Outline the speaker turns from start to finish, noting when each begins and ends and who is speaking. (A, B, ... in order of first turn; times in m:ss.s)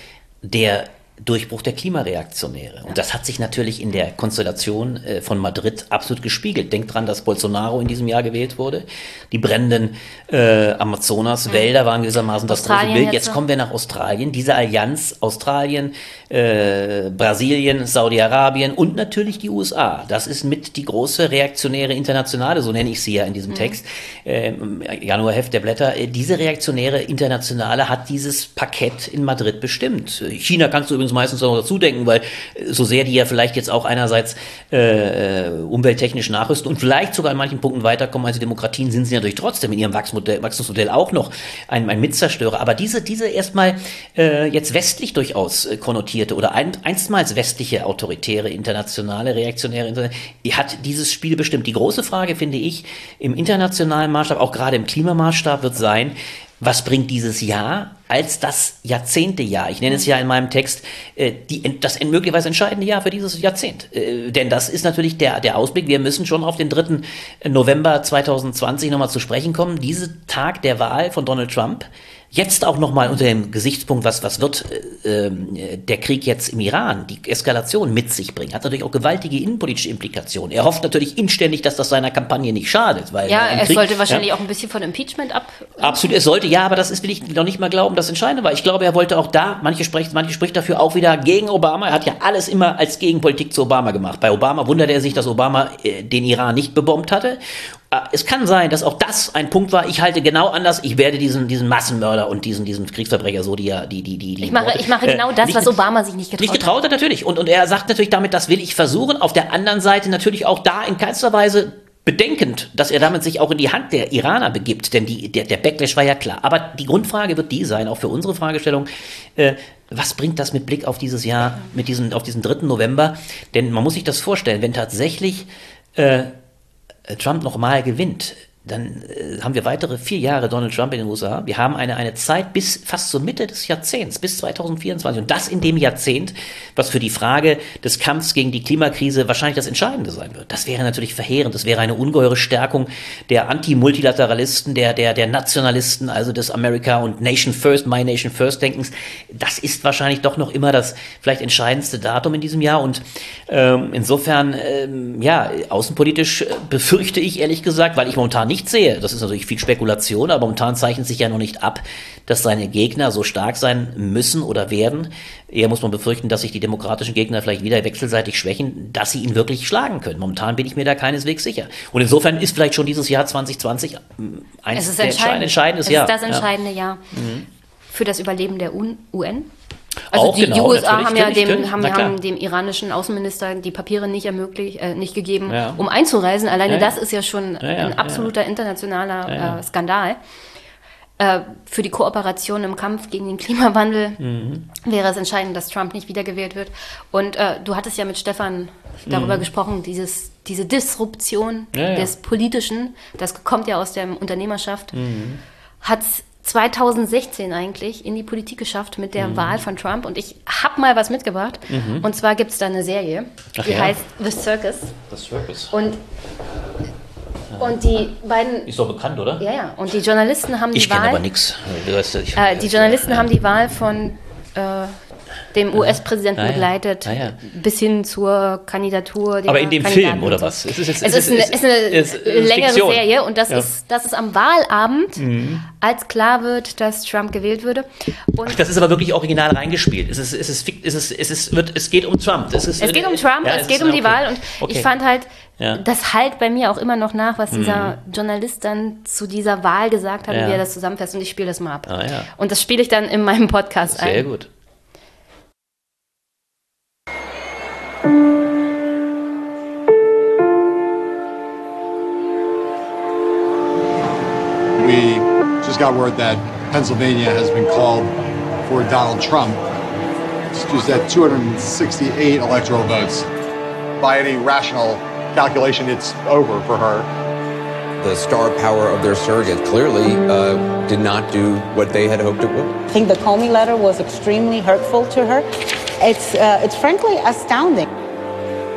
0:00.4-1:24.2 A
0:12.5-0:13.4 B
1:23.2-1:26.0 B
1:25.8-1:45.8 A
1:44.4-1:46.7 B
1:46.4-2:06.3 A
2:07.1-2:56.4 A
2:54.7-2:57.0 B
2:57.1-2:57.5 A
2:57.9-2:59.5 B
3:00.1-3:02.2 A
3:00.1-3:10.2 B
3:05.5-3:05.8 A
3:06.7-3:06.9 A
3:07.6-3:08.3 A
3:09.3-3:09.6 A
3:11.2-3:14.2 B
3:14.2-3:14.7 A
3:14.7-3:25.0 B
3:19.1-3:19.4 A
3:21.7-3:22.1 A
3:24.9-3:25.4 A
3:25.8-3:35.0 B
3:29.2-3:29.6 A
3:31.7-3:32.0 A
3:33.6-3:33.9 A
3:35.1-3:35.7 A
3:35.7-3:36.0 B
3:37.5-3:37.8 A
3:37.6-3:38.7 B
3:38.6-3:39.4 A
3:39.4-3:41.2 B
3:40.7-3:43.3 A
3:42.3-3:45.0 B
3:45.5-3:55.2 B
3:45.8-3:47.4 A
3:49.4-3:53.7 A
3:55.2-3:55.6 A
3:55.8-3:58.6 B
3:58.4-4:04.9 A
4:02.8-4:14.3 B
4:07.5-4:08.0 A
4:10.3-4:10.6 A
4:11.9-4:12.3 A
4:13.9-4:14.5 A
4:24.8-4:28.1 C
4:28.6-4:29.6 C
4:30.5-4:33.3 C
4:34.0-4:37.1 C
4:38.0-4:42.8 D
4:42.9-4:47.9 E